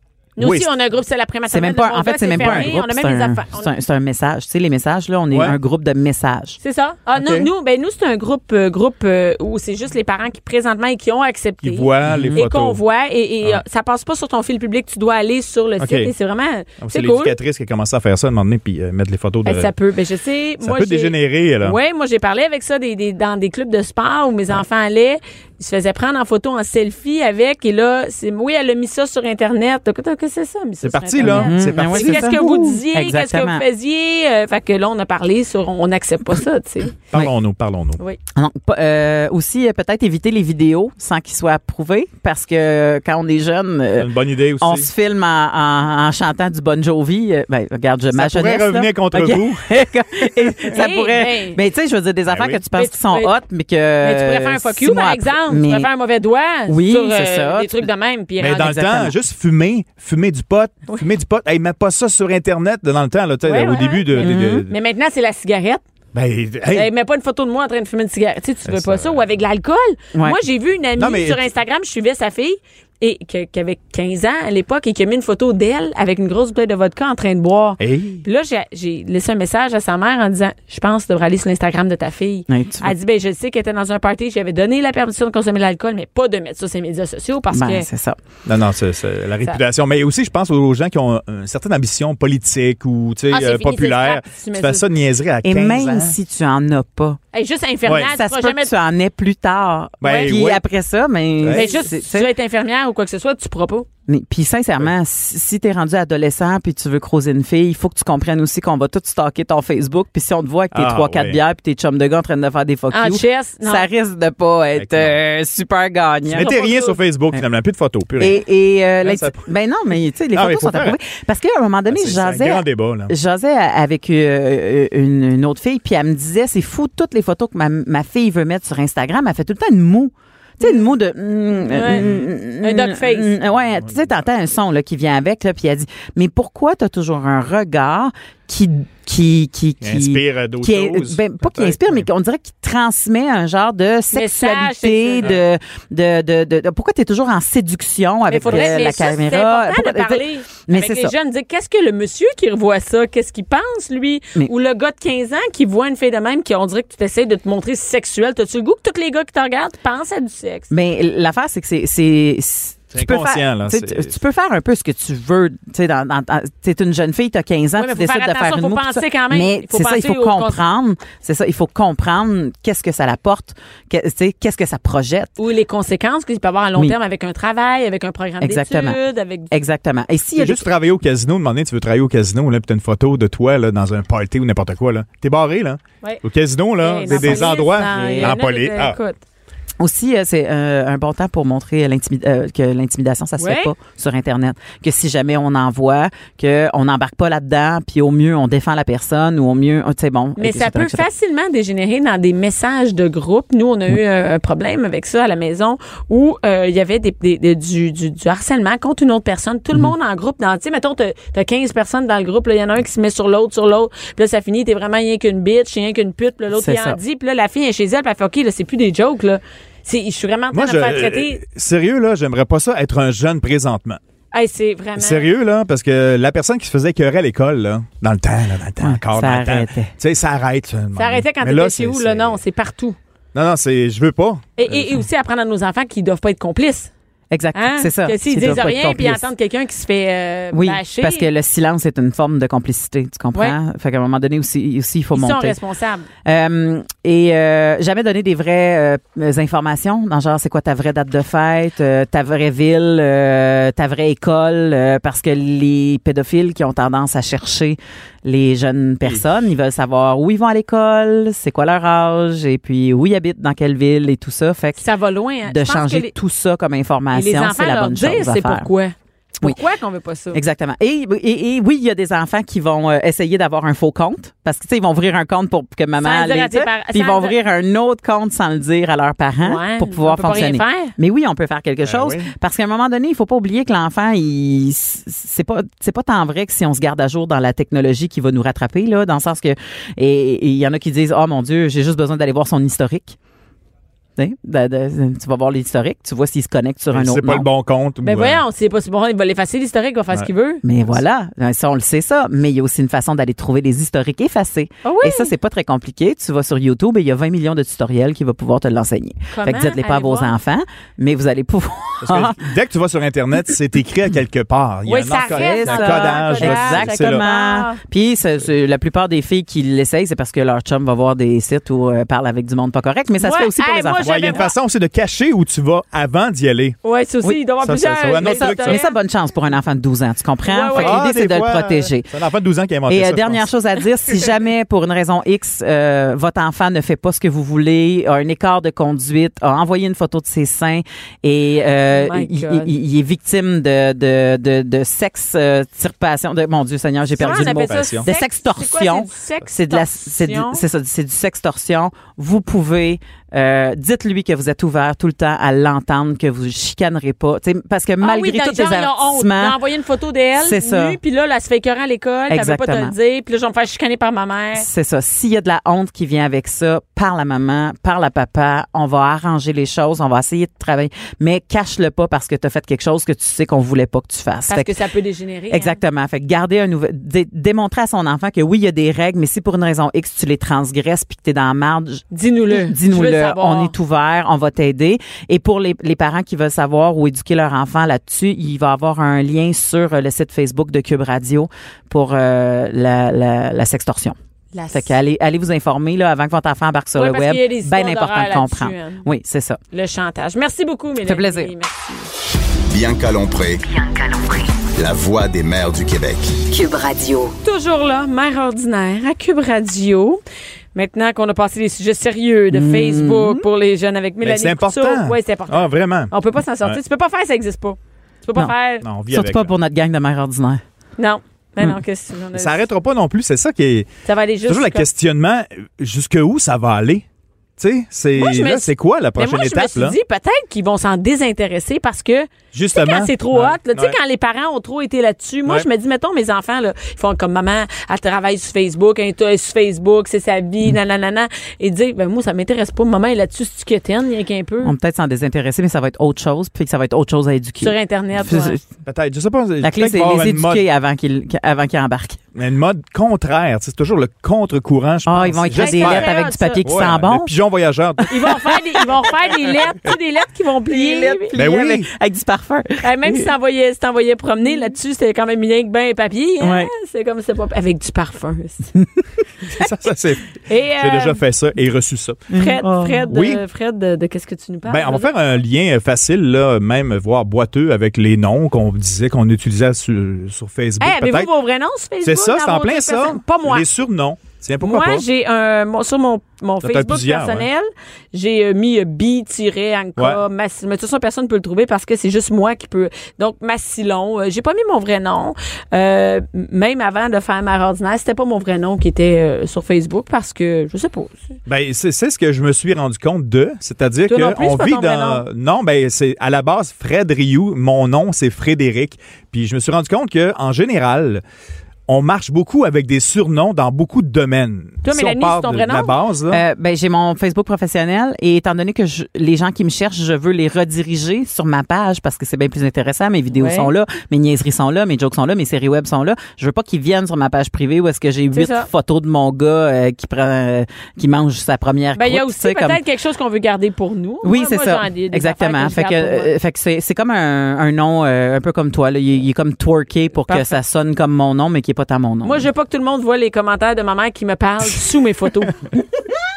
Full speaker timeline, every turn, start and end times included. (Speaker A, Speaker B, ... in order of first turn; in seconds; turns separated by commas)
Speaker A: 0.4-3.7, Speaker B: 0.4-0.7, Speaker C: 1.5-6.6, Speaker B: 2.4-2.7, Speaker A: 6.6-17.4, Speaker B: 7.2-7.5, Speaker B: 11.6-12.8, Speaker C: 12.1-12.4, Speaker B: 15.8-16.1, Speaker B: 16.8-19.7, Speaker A: 19.4-37.0, Speaker B: 20.6-21.8, Speaker B: 30.8-32.7, Speaker C: 31.2-33.6, Speaker B: 37.1-38.0, Speaker C: 38.3-55.9, Speaker B: 44.0-44.9, Speaker B: 48.1-49.7, Speaker A: 50.7-51.6, Speaker B: 52.3-52.6, Speaker A: 52.7-53.3, Speaker A: 54.0-59.0, Speaker C: 56.7-57.9, Speaker B: 58.4-64.7, Speaker C: 58.5-59.1, Speaker A: 63.5-65.8, Speaker C: 64.2-64.7, Speaker B: 66.1-66.9, Speaker A: 66.7-87.9, Speaker B: 68.7-69.2, Speaker B: 71.0-71.4, Speaker B: 77.8-78.2, Speaker C: 82.5-83.0, Speaker C: 87.5-88.2, Speaker B: 88.5-96.1, Speaker A: 93.3-94.9, Speaker C: 95.4-97.2, Speaker A: 97.3-98.7, Speaker C: 98.0-102.3, Speaker B: 100.0-100.6, Speaker A: 100.0-100.3, Speaker B: 101.4-101.6, Speaker A: 101.5-103.9, Speaker C: 104.1-116.5, Speaker B: 110.7-111.4, Speaker A: 112.9-113.9, Speaker B: 114.8-115.1, Speaker B: 116.3-118.4, Speaker A: 116.3-117.0, Speaker C: 118.2-151.1, Speaker B: 119.0-119.4, Speaker B: 120.3-121.0, Speaker B: 121.9-123.1, Speaker A: 131.7-133.3, Speaker B: 131.9-132.2, Speaker B: 139.8-142.1, Speaker A: 144.1-145.4, Speaker A: 148.3-160.7, Speaker B: 148.5-148.7, Speaker C: 160.7-175.3, Speaker B: 162.9-164.1, Speaker A: 167.8-170.6, Speaker A: 175.4-179.5, Speaker C: 178.4-179.0, Speaker C: 179.5-180.7, Speaker B: 180.4-189.0, Speaker A: 186.8-189.2, Speaker C: 187.1-188.4, Speaker C: 189.8-201.1, Speaker A: 193.4-193.7, Speaker A: 200.4-221.4, Speaker C: 216.5-217.0, Speaker B: 220.5-224.0, Speaker A: 224.3-225.3, Speaker B: 225.0-232.4, Speaker C: 228.8-229.9, Speaker A: 230.9-233.0, Speaker B: 233.3-235.0, Speaker A: 234.6-236.9, Speaker C: 237.3-239.3, Speaker A: 237.6-241.3, Speaker C: 240.5-245.6, Speaker A: 245.1-246.1, Speaker C: 246.2-264.8, Speaker A: 264.8-266.1, Speaker C: 265.5-268.7, Speaker A: 267.1-270.4, Speaker C: 270.3-293.2, Speaker A: 276.0-277.4, Speaker A: 279.4-280.9, Speaker B: 281.9-282.3, Speaker C: 294.2-297.5, Speaker B: 296.9-298.4, Speaker A: 298.0-300.6, Speaker C: 300.6-312.4, Speaker A: 304.8-305.3, Speaker A: 309.3-310.4, Speaker B: 312.0-317.2, Speaker A: 314.9-317.8, Speaker C: 315.3-324.4, Speaker A: 323.2-324.5, Speaker B: 324.0-326.8, Speaker A: 326.8-328.9, Speaker B: 327.6-328.8, Speaker C: 328.1-332.1, Speaker A: 330.5-331.1, Speaker B: 330.8-333.4, Speaker C: 332.9-359.6, Speaker A: 341.9-342.7, Speaker B: 347.2-348.1, Speaker A: 347.2-350.6, Speaker A: 358.0-364.7, Speaker C: 360.4-361.0, Speaker C: 362.3-362.9, Speaker C: 364.6-374.8, Speaker A: 374.5-375.8, Speaker C: 375.5-394.2, Speaker A: 382.1-383.7, Speaker A: 394.5-394.9, Speaker C: 394.7-399.6, Speaker A: 396.9-399.1, Speaker A: 399.7-402.1, Speaker C: 401.0-401.5, Speaker D: 402.7-403.6, Speaker E: 403.6-404.6, Speaker D: 404.7-406.4, Speaker E: 406.5-407.4, Speaker A: 407.4-410.2, Speaker A: 410.7-418.9, Speaker C: 412.5-413.4, Speaker B: 414.2-416.1, Speaker B: 418.8-419.5, Speaker C: 419.1-420.6, Speaker A: 421.0-422.7, Speaker B: 422.4-423.9, Speaker A: 424.1-424.9, Speaker B: 424.5-427.1, Speaker B: 427.6-429.9, Speaker A: 428.2-444.7, Speaker B: 432.5-433.9, Speaker C: 444.6-448.6, Speaker A: 447.6-448.6, Speaker B: 448.9-450.6, Speaker C: 449.6-452.2, Speaker B: 452.4-458.3, Speaker C: 455.1-457.3, Speaker A: 455.5-456.6, Speaker C: 458.0-459.1, Speaker A: 458.1-461.4, Speaker C: 460.7-463.3, Speaker B: 461.3-461.9, Speaker A: 462.8-468.7, Speaker C: 466.4-466.7, Speaker B: 469.5-472.4, Speaker A: 470.5-471.2, Speaker C: 472.3-473.1, Speaker A: 472.3-475.1, Speaker B: 473.1-473.4, Speaker B: 474.7-481.3, Speaker A: 480.8-483.7, Speaker B: 482.0-485.0, Speaker A: 484.6-501.2, Speaker B: 486.6-487.5, Speaker B: 501.5-511.2, Speaker A: 504.1-505.2, Speaker B: 511.9-516.4, Speaker A: 514.8-516.0, Speaker C: 516.3-532.8, Speaker A: 523.3-523.7, Speaker A: 528.3-528.7, Speaker A: 532.0-536.3, Speaker C: 534.2-542.5, Speaker A: 540.3-540.6, Speaker A: 542.2-545.6